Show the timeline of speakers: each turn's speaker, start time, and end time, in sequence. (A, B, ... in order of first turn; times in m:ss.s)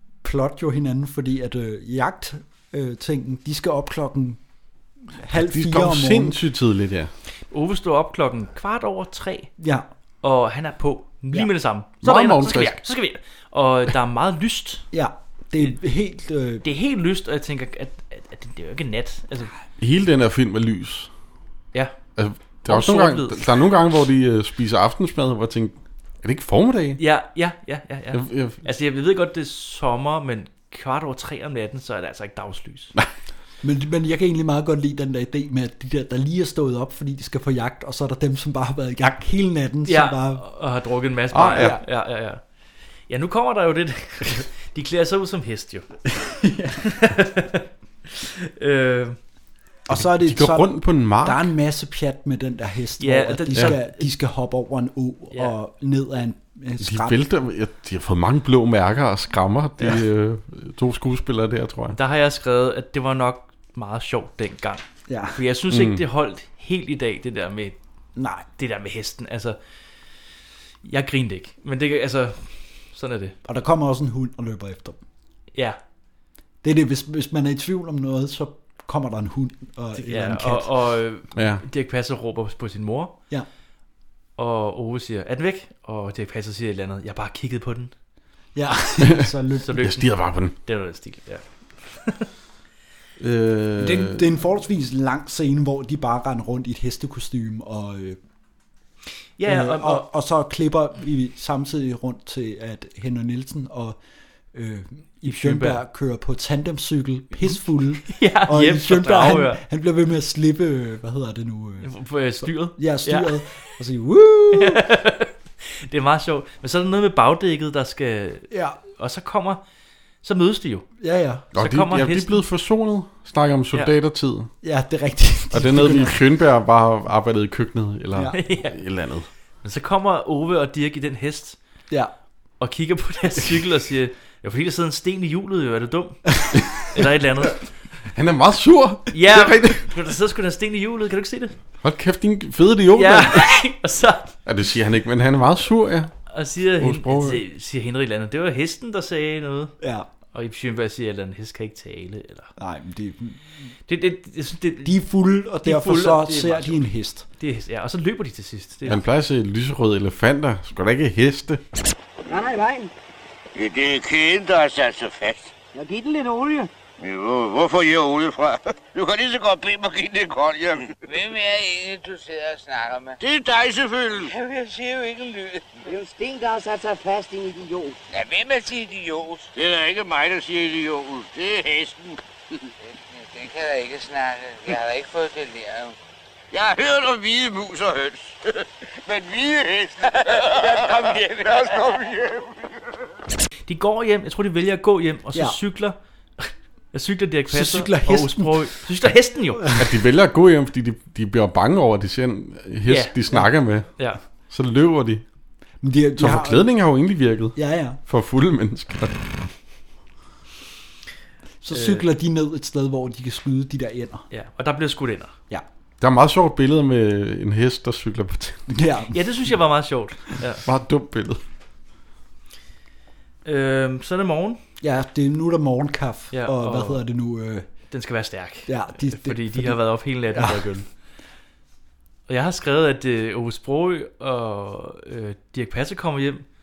0:00.2-0:04.4 A
0:05.2-0:06.4 A
0:05.3-0:07.1 B
0:07.5-0:09.5 C
0:09.6-0:09.9 A
0:10.2-0:14.8 C
0:12.0-0:12.8 B
0:14.9-0:16.6 A
0:16.6-0:19.5 C
0:19.8-0:21.1 B
0:22.2-0:27.0 B
0:22.7-0:23.5 C
0:27.0-0:32.9 C
0:28.1-0:28.6 B
0:33.6-0:40.4 A
0:39.8-0:42.4 C
0:41.3-0:41.8 B
0:43.1-0:45.9 C
0:46.8-0:49.2 C
0:49.9-0:57.1 A
0:49.9-0:51.5 B
0:53.0-0:54.0 C
0:56.8-1:02.0 B
1:01.9-1:07.8 C
1:05.1-1:05.3 A
1:05.7-1:06.0 B
1:08.2-1:08.4 A
1:08.6-1:09.6 C
1:10.8-1:13.4 C
1:13.4-1:15.0 A
1:15.5-1:15.8 C
1:16.6-1:20.6 A
1:20.0-1:23.1 C
1:21.4-1:21.6 B
1:24.4-1:27.9 C
1:28.6-1:29.8 A
1:29.0-1:30.6 B
1:29.6-1:32.3 C
1:33.2-1:34.2 B
1:33.8-1:38.2 A
1:39.4-1:40.0 C
1:39.5-1:44.0 A
1:44.6-1:51.9 A
1:45.3-1:45.8 C
1:48.1-1:49.6 C
1:51.8-1:53.3 C
1:52.8-1:54.7 A
1:54.6-1:59.6 C
1:58.5-1:58.8 A
2:00.2-2:00.9 C
2:01.0-2:01.4 A
2:01.5-2:02.4 C
2:01.6-2:04.5 B
2:04.6-2:06.1 A
2:05.5-2:09.3 B
2:08.3-2:08.8 C
2:09.6-2:11.6 C
2:12.6-2:17.6 C
2:18.1-2:19.9 B
2:19.1-2:21.6 C
2:21.8-2:23.6 B
2:22.9-2:24.3 C
2:24.4-2:26.2 B
2:26.3-2:29.7 C
2:26.7-2:27.4 B
2:29.8-2:30.1 A
2:30.3-2:32.5 C
2:32.6-2:33.4 A
2:33.9-2:34.9 C
2:34.8-2:37.2 A
2:35.6-2:36.8 C
2:37.4-2:39.0 C
2:38.9-2:41.6 B
2:43.6-2:45.5 D
2:47.0-2:50.9 D
2:51.0-2:53.2 E
2:53.2-2:54.3 D
2:54.4-2:55.7 E
2:58.1-2:59.5 E
2:59.5-3:02.2 D
3:02.8-3:05.9 E
3:06.5-3:12.4 D
3:10.2-3:11.6 E
3:13.7-3:19.6 C
3:17.5-3:18.6 A
3:19.7-3:24.0 B
3:22.9-3:23.1 C
3:23.9-3:24.2 C
3:24.5-3:25.2 B
3:25.8-3:26.7 A
3:26.2-3:29.3 B
3:27.6-3:28.0 A
3:31.6-3:34.2 A
3:31.7-3:32.0 C
3:34.3-3:35.3 C
3:36.0-3:38.6 B
3:38.7-3:39.1 A
3:39.1-3:40.6 C
3:40.6-3:41.4 B
3:43.4-3:44.6 C
3:44.8-3:47.6 A
3:46.3-3:47.0 C
3:47.9-3:50.9 C
3:48.7-3:49.7 A
3:52.3-3:56.4 C